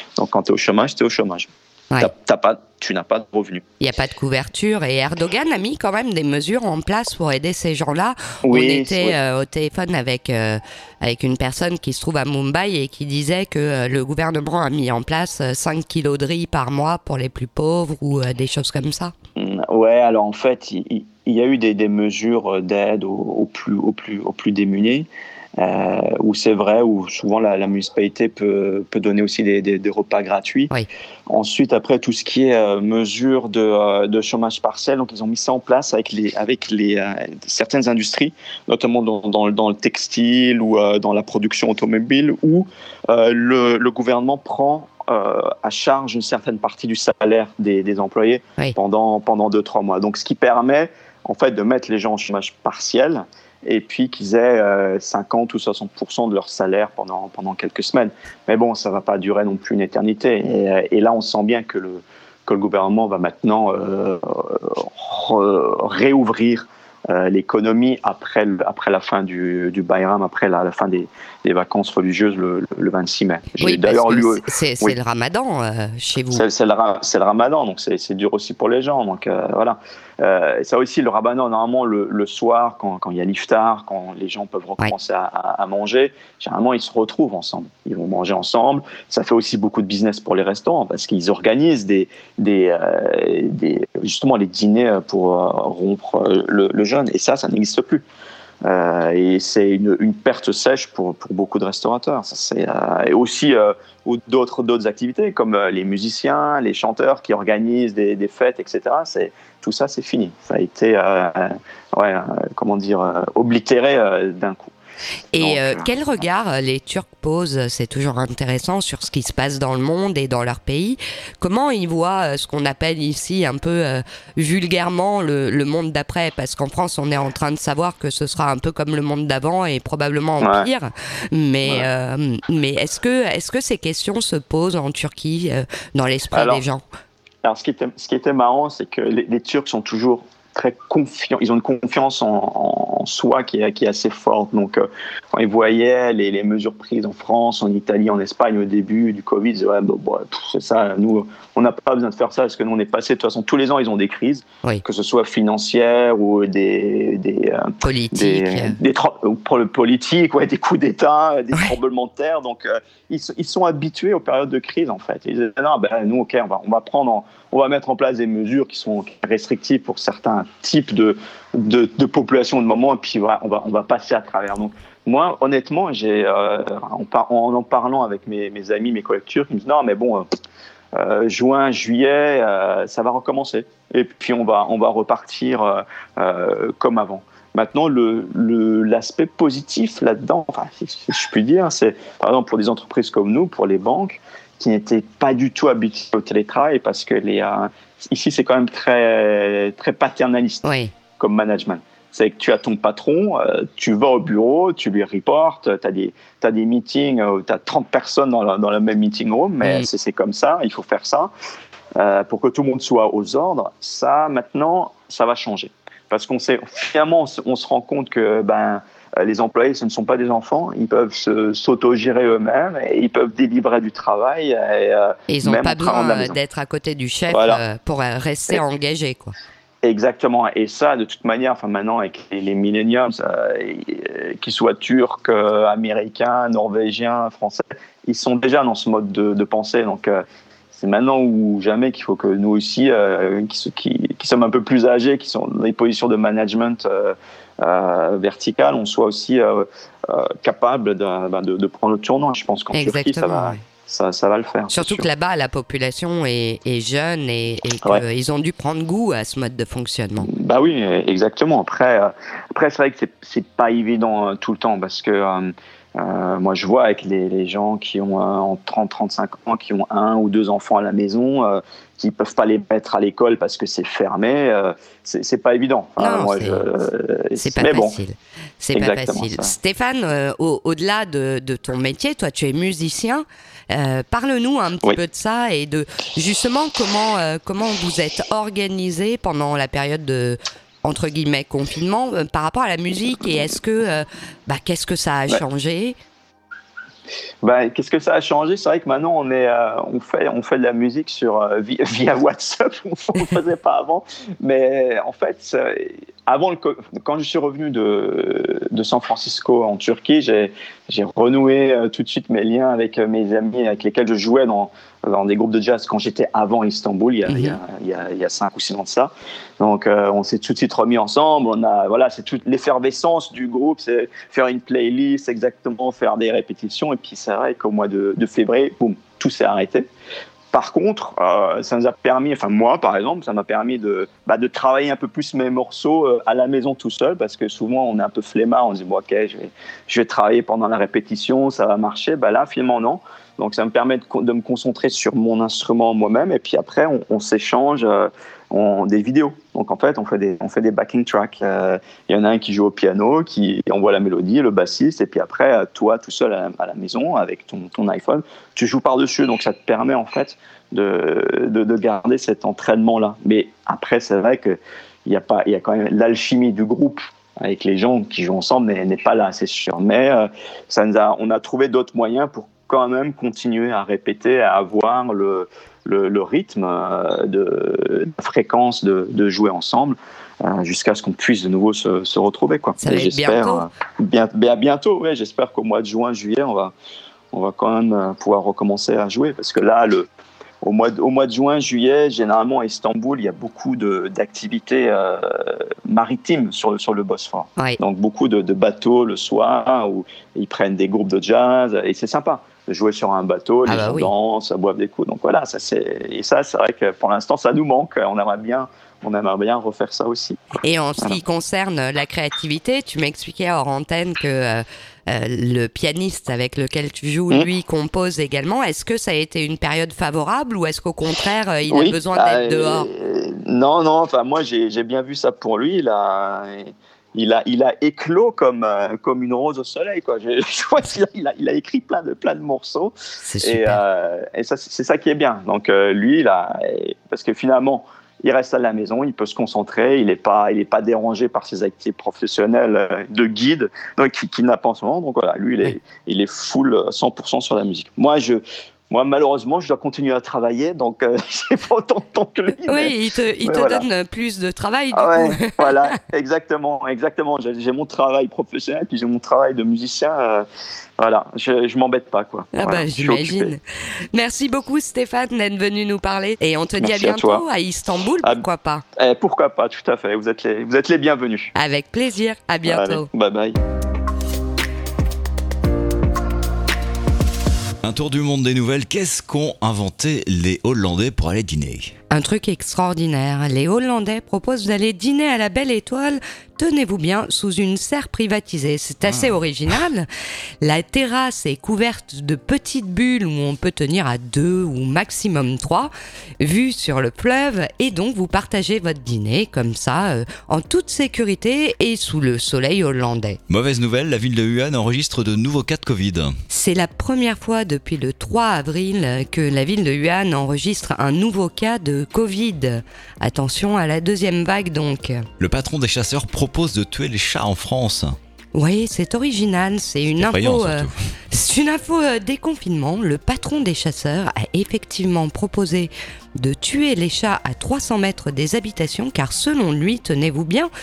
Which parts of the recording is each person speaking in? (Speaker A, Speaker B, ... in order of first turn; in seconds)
Speaker A: 0.2-3.6, 8.4-9.2, 19.4-30.7, 31.3-75.0, 76.3-98.0, 98.6-114.7, 115.4-115.9, 130.4-130.7, 136.3-136.6, 137.4-180.3, 180.9-211.3, 212.0-226.4, 227.3-227.6, 229.8-255.1, 260.2-278.0, 278.7-279.5, 297.4-329.9, 330.5-386.7, 387.3-390.1, 390.6-410.4, 421.7-453.9, 454.9-460.5, 461.0-463.5, 466.8-467.4, 469.0-471.5, 472.6-473.6
Speaker B: 3.8-19.1, 73.6-76.5, 115.3-136.8, 157.8-158.8, 200.7-200.9, 225.3-229.3, 252.7-253.6, 254.7-260.3, 276.0-276.7, 277.4-296.0, 317.3-317.6, 382.8-383.6, 403.7-404.1, 410.6-422.9, 433.2-433.8, 452.7-456.0, 462.6-463.6, 464.1-468.8, 471.6-473.1, 482.1-490.1, 490.6-503.4, 506.5-515.3, 518.5-530.7
Speaker C: 477.8-481.9, 489.0-489.4, 503.5-506.4, 515.4-518.2, 520.1-521.0